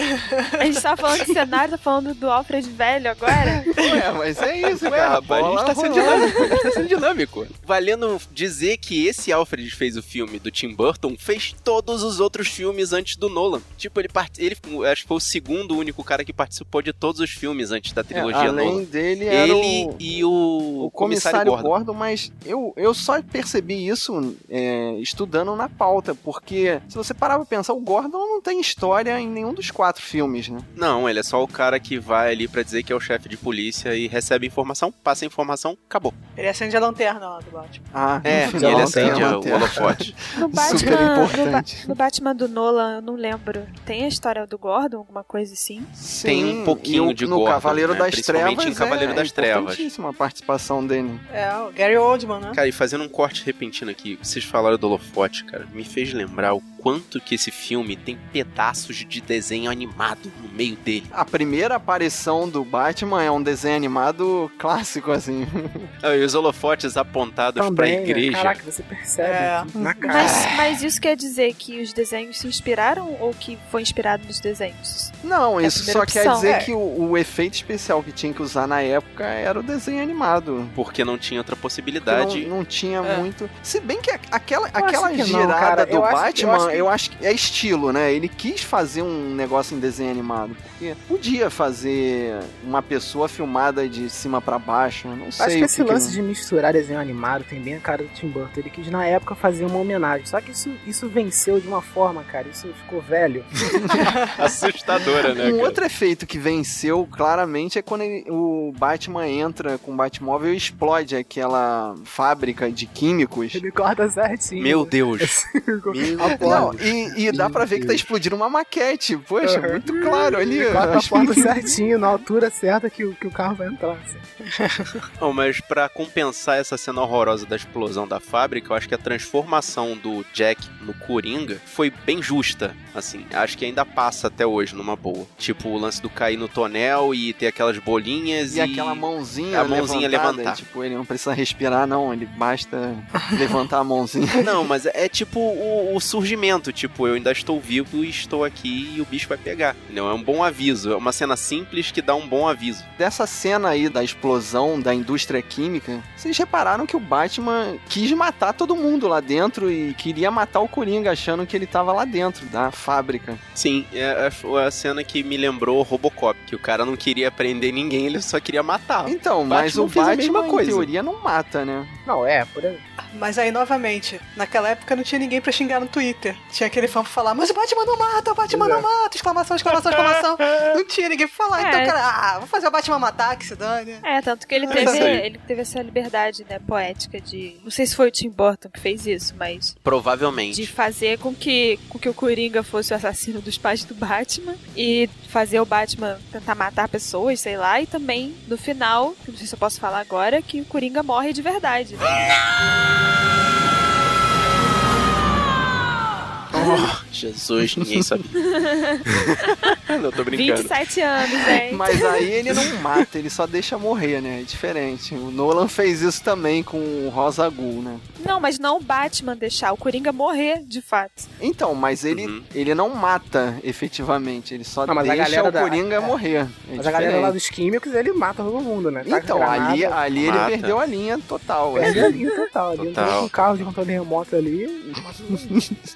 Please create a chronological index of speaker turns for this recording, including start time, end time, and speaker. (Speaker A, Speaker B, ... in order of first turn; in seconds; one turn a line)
Speaker A: 0.2-0.5
Speaker B: 0.6-3.7
Speaker C: 3.7-6.7
Speaker D: 4.8-21.7
Speaker C: 18.1-20.0
Speaker C: 20.8-30.7
Speaker D: 30.8-36.2
Speaker A: 36.4-37.8
Speaker C: 37.9-41.9
Speaker D: 38.2-40.2
Speaker E: 38.3-39.8
Speaker B: 40.4-45.9
Speaker C: 46.0-51.2
Speaker D: 46.2-49.9
Speaker A: 51.3-52.6
Speaker D: 52.5-61.1
Speaker C: 61.1-65.9
Speaker D: 66.0-68.6
Speaker E: 67.6-70.5
Speaker A: 69.2-70.2
Speaker B: 70.1-76.5
Speaker C: 75.2-80.8
Speaker A: 76.4-76.7
Speaker D: 80.8-82.5
Speaker C: 82.0-96.2
Speaker E: 84.8-86.9
Speaker E: 95.4-103.5
Speaker D: 104.4-105.8
Speaker C: 105.4-113.6
Speaker E: 113.5-118.0
Speaker D: 114.6-116.8
Speaker C: 116.2-121.5
Speaker E: 119.4-124.3
Speaker D: 125.2-140.6
Speaker C: 138.5-144.5
Speaker D: 144.4-152.9
Speaker C: 153.0-163.4
Speaker D: 163.6-170.9
Speaker C: 169.1-172.0
Speaker E: 172.1-172.8
Speaker A: 173.1-184.1
Speaker E: 178.5-178.9
Speaker B: 181.6-182.0
Speaker B: 184.0-189.8
Speaker A: 184.7-185.1
Speaker D: 184.7-185.2
Speaker D: 189.8-190.7
Speaker B: 190.5-202.1
Speaker C: 206.6-206.9
Speaker D: 206.6-208.3
Speaker B: 208.4-209.1
Speaker D: 209.8-210.7
Speaker B: 210.3-212.1
Speaker C: 211.7-218.1
Speaker D: 212.7-213.0
Speaker B: 218.2-221.3
Speaker C: 221.4-227.4
Speaker D: 222.1-222.5
Speaker E: 224.9-226.2
Speaker E: 226.8-230.0
Speaker C: 229.0-232.2
Speaker D: 230.2-230.8
Speaker E: 231.7-235.6
Speaker D: 232.8-233.7
Speaker C: 235.3-235.6